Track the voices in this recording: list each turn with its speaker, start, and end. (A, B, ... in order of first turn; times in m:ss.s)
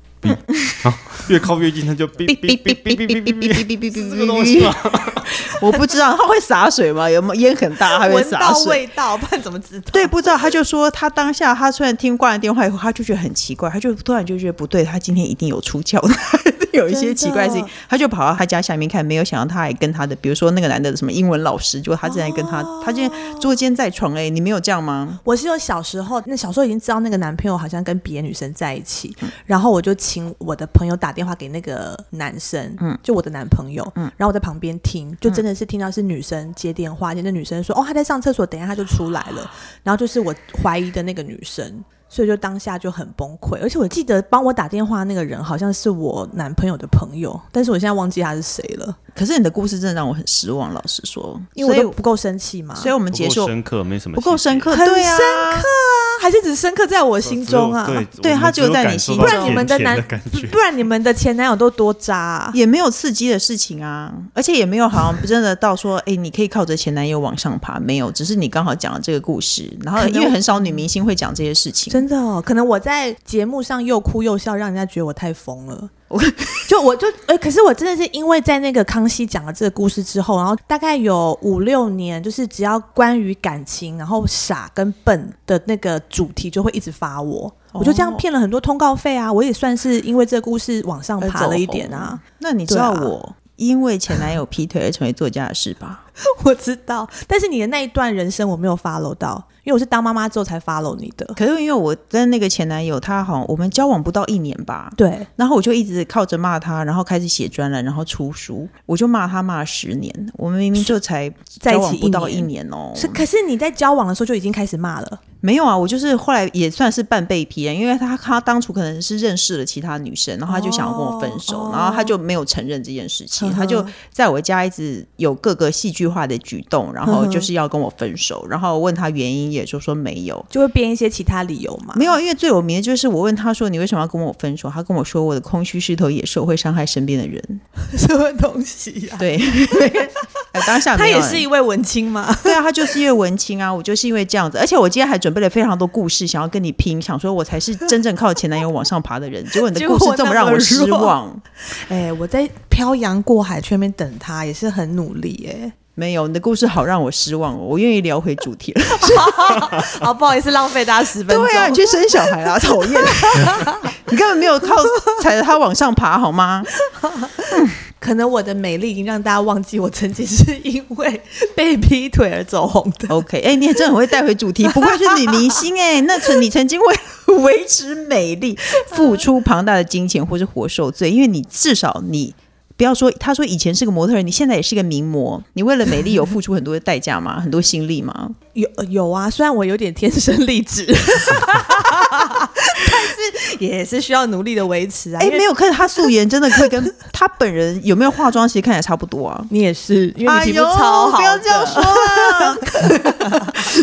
0:00.2-0:05.3 A
0:00.5-0:00.7 B
0:02.3-0:08.8 B
0:07.9-0:10.1 C
0:09.9-0:25.2 B
0:16.9-0:17.7 C
0:22.0-0:23.5 C
0:25.2-0:49.0 C
0:49.2-0:52.0 B
0:51.6-0:52.9 C
0:52.8-0:53.5 B
0:53.1-0:54.7 A
0:54.2-0:55.7 B
0:54.7-0:58.1 C
0:57.2-1:00.6 A
0:58.2-0:59.7 B
0:59.2-1:02.6 C
1:02.5-1:12.0 B
1:10.0-1:10.8 C
1:11.9-1:15.9 C
1:16.1-1:16.7 B
1:16.7-1:33.1 C
1:27.7-1:28.2 B
1:31.2-1:36.0 B
1:36.2-1:41.4 C
1:41.4-1:53.2 B
1:45.0-1:45.3 C
1:51.6-1:55.2 C
1:55.4-2:10.5 B
2:00.5-2:02.1 C
2:03.4-2:03.9 C
2:07.1-2:07.5 C
2:10.5-2:12.1 C
2:11.9-2:17.6 B
2:17.8-2:20.1 C
2:19.2-2:21.5 B
2:20.6-2:22.6 C
2:22.4-2:31.4 B
2:29.6-2:31.1 C
2:31.7-2:35.7 C
2:36.0-2:39.8 B
2:38.9-2:44.0 C
2:41.3-2:46.7 B
2:46.8-2:53.2 C
2:53.1-3:08.4 B
2:54.7-2:55.6 C
2:58.9-2:59.2 C
3:08.6-3:15.5 C
3:15.2-3:19.5 B
3:19.5-3:23.7 C
3:20.2-3:23.5 B